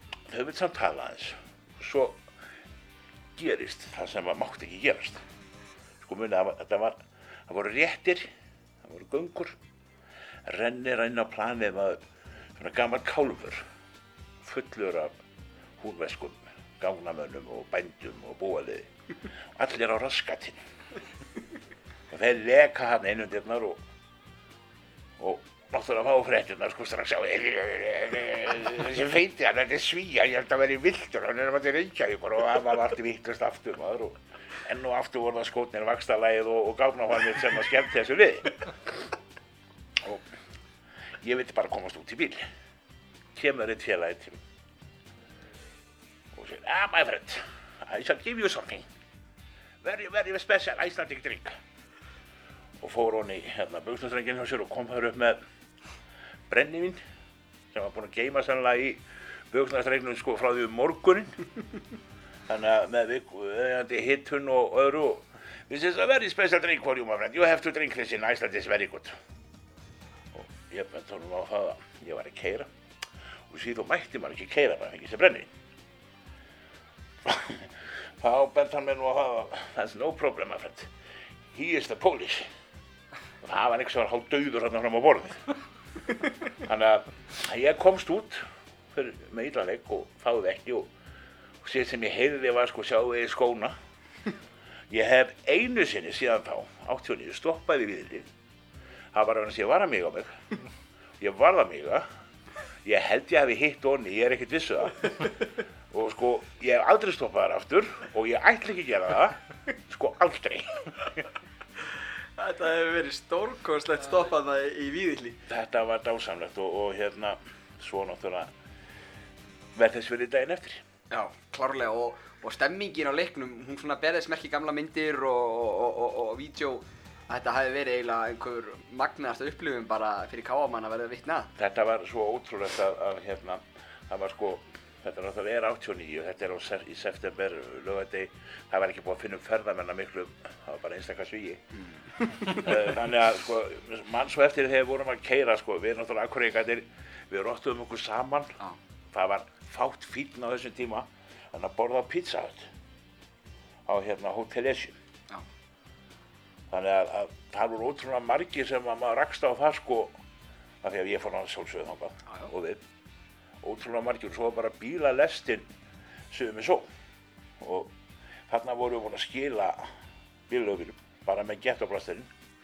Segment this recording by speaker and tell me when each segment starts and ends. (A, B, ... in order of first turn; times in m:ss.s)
0:00.3-0:02.3 A
0:03.4-0:05.2 A
0:06.0-0:08.3 A
0:08.8-0:09.6 A
0:10.4-0:12.0 A
0:12.6-0:13.6 A
0:14.4-0:15.1 A
0:15.8-0:18.9 A
0:19.6-0:20.6 A
0:22.1-0:23.8 A
0:25.2-0:39.1 A
0:40.0-0:40.3 A
0:41.2-0:42.5 A
0:43.3-0:44.4 A
0:46.3-0:48.9 A
0:49.8-0:51.6 A
0:52.8-0:55.4 A
0:56.5-0:57.0 A
0:57.7-1:01.4 A
1:02.5-1:09.2 A
1:10.3-1:12.7 A
1:13.5-1:15.5 A
1:17.2-1:20.9 A
1:21.5-1:22.5 A
1:23.4-1:25.5 A
1:26.6-1:30.9 A
1:31.6-1:33.8 A
1:34.9-1:38.3 A
1:39.1-1:40.4 A
1:41.2-1:42.0 A
1:42.8-1:45.3 A
1:45.9-1:51.2 A
1:52.4-1:55.4 B
1:55.5-1:58.5 A
1:59.7-2:00.8 A
2:01.1-2:11.5 B
2:11.6-2:21.6 A
2:22.2-2:22.6 B
2:22.4-2:28.6 A
2:29.1-2:32.7 A
2:33.9-2:35.0 A
2:36.7-2:40.2 A
2:40.8-2:42.8 A
2:43.6-2:45.7 A
2:46.3-2:46.9 A
2:47.6-2:47.9 A
2:48.5-2:49.9 A
2:50.5-2:52.3 A